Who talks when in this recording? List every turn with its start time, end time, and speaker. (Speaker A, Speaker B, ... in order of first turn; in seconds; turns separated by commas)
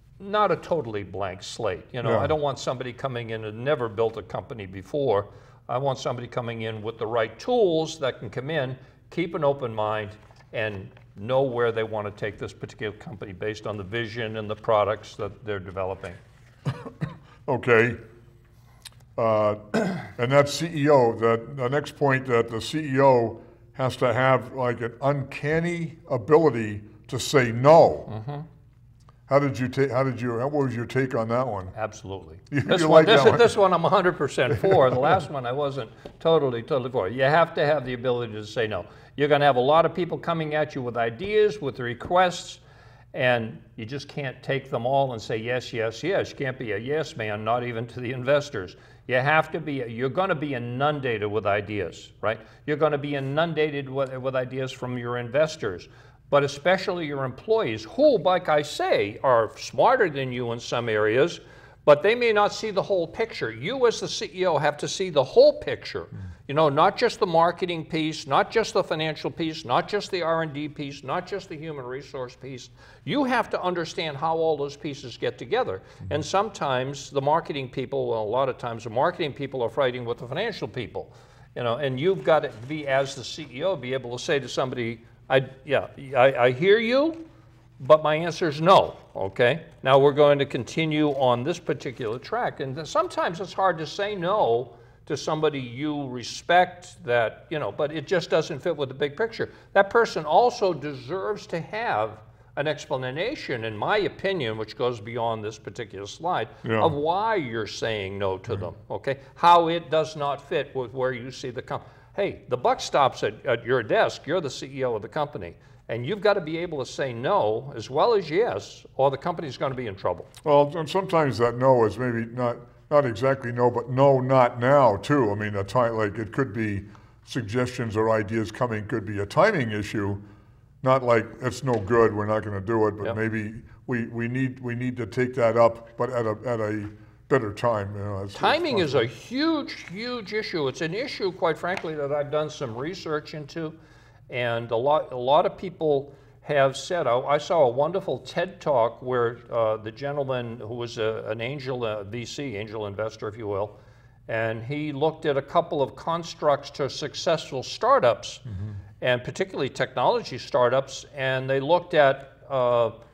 Speaker A: 0.2-16.2, Speaker B: 2.0-2.3, Speaker B: 17.5-18.0, Speaker B: 19.2-28.1, Speaker A: 28.1-28.5, Speaker B: 29.3-31.7, Speaker A: 31.7-42.6, Speaker B: 32.5-33.5, Speaker A: 43.1-87.2, Speaker A: 87.8-120.3, Speaker B: 106.6-106.9, Speaker B: 120.4-130.2, Speaker B: 130.8-139.1, Speaker A: 138.3-143.8, Speaker A: 144.3-153.8, Speaker A: 154.3-158.5, Speaker A: 159.0-163.0